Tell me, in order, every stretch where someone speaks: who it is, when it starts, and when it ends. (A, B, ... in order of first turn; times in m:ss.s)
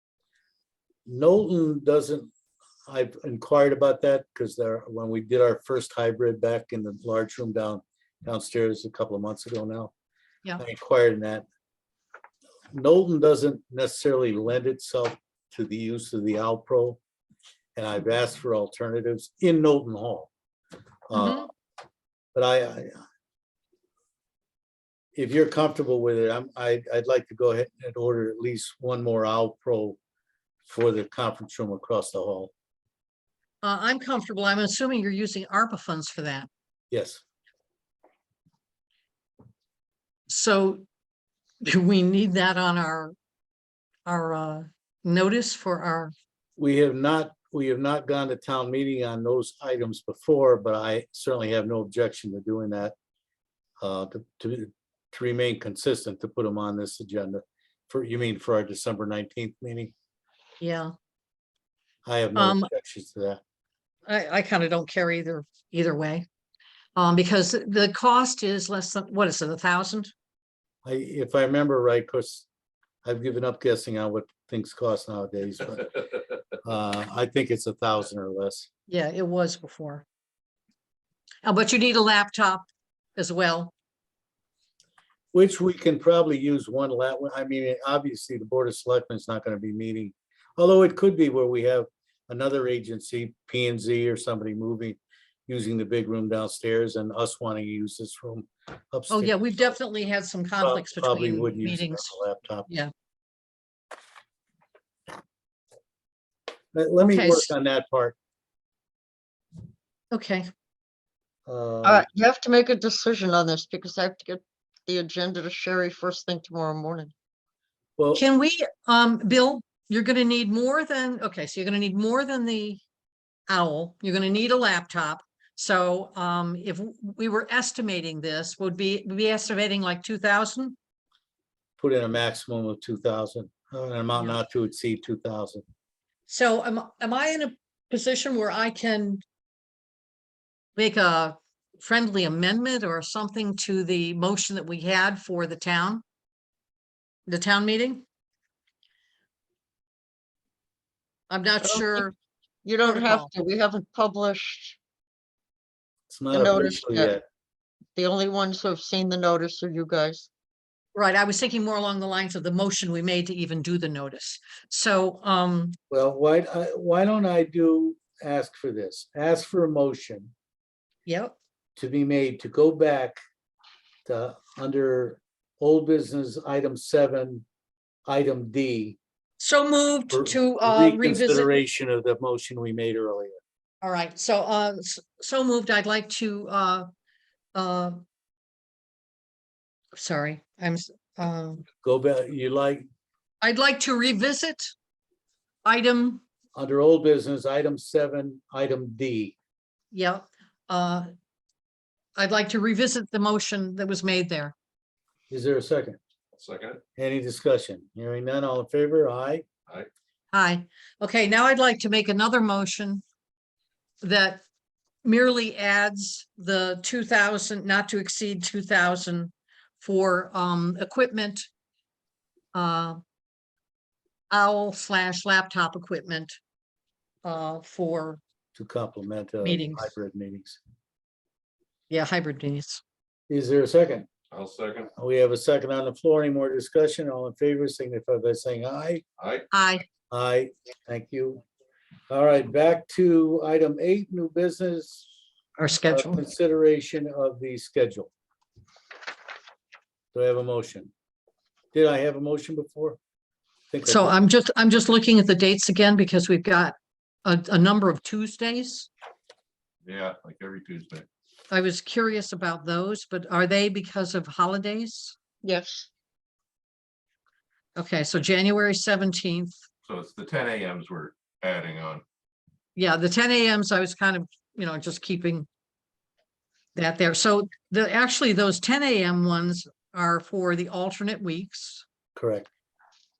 0:01.1-0:02.3 A
0:02.9-0:09.9 A
0:10.6-0:11.4 A
0:12.7-0:17.0 A
0:17.8-0:20.3 A
0:21.1-0:21.5 A
0:21.1-0:21.5 B
0:22.4-0:23.0 A
0:25.2-0:30.0 A
0:30.7-0:32.5 A
0:33.6-0:36.5 B
0:36.9-0:37.2 A
0:40.3-0:40.8 B
0:41.6-0:43.1 B
0:44.1-0:46.1 B
0:46.6-0:53.0 A
0:53.8-0:59.9 A
1:00.6-1:00.9 B
1:02.0-1:03.4 A
1:02.4-1:02.7 B
1:04.1-1:06.3 B
1:07.0-1:10.1 B
1:10.8-1:12.5 A
1:13.0-1:16.0 A
1:16.6-1:18.7 A
1:18.9-1:20.0 B
1:21.4-1:23.7 B
1:25.3-1:39.8 A
1:39.1-1:42.1 B
1:40.6-1:42.7 A
1:46.7-1:48.2 A
1:47.0-1:47.5 B
1:50.1-1:50.5 B
1:51.5-1:52.1 A
1:51.8-1:57.1 C
1:58.0-1:58.2 A
1:58.2-2:02.8 B
2:03.5-2:10.8 B
2:11.8-2:15.6 A
2:16.3-2:19.2 B
2:20.8-2:26.0 B
2:27.3-2:28.0 B
2:31.3-2:32.1 B
2:31.6-2:32.1 C
2:32.6-2:34.8 C
2:32.8-2:33.3 B
2:36.1-2:37.2 A
2:36.3-2:37.2 C
2:38.0-2:40.3 C
2:40.9-2:45.8 B
2:45.9-2:50.3 A
2:51.1-2:51.4 B
2:51.8-2:53.2 A
2:54.1-2:57.4 A
2:58.1-2:59.0 A
2:59.4-3:01.6 B
3:00.1-3:03.4 A
3:03.8-3:06.9 B
3:07.6-3:08.0 B
3:09.9-3:11.6 B
3:11.8-3:12.9 A
3:13.4-3:14.8 B
3:15.6-3:16.2 B
3:16.6-3:19.4 A
3:19.9-3:21.1 B
3:22.2-3:24.6 B
3:25.3-3:26.0 A
3:26.4-3:26.8 D
3:27.0-3:29.4 A
3:30.3-3:33.0 B
3:34.0-3:34.4 B
3:35.0-3:41.5 B
3:42.5-3:43.0 B
3:44.3-3:46.4 B
3:47.2-3:48.2 B
3:48.6-3:50.6 A
3:49.4-3:49.9 B
3:51.9-3:52.8 B
3:53.3-3:54.1 A
3:54.3-3:54.9 D
3:55.0-3:59.0 A
3:59.2-3:59.5 D
3:59.5-3:59.8 B
4:00.1-4:01.4 A
4:02.1-4:05.1 A
4:05.6-4:06.2 B
4:05.9-4:08.1 A
4:10.1-4:10.9 A
4:11.7-4:13.0 A
4:13.7-4:14.2 A
4:13.8-4:18.9 B
4:19.8-4:21.1 D
4:21.5-4:25.2 B
4:25.4-4:25.9 C
4:27.8-4:29.6 B
4:29.8-4:32.0 D
4:32.8-4:35.5 B
4:36.8-4:41.8 B
4:42.2-4:42.5 A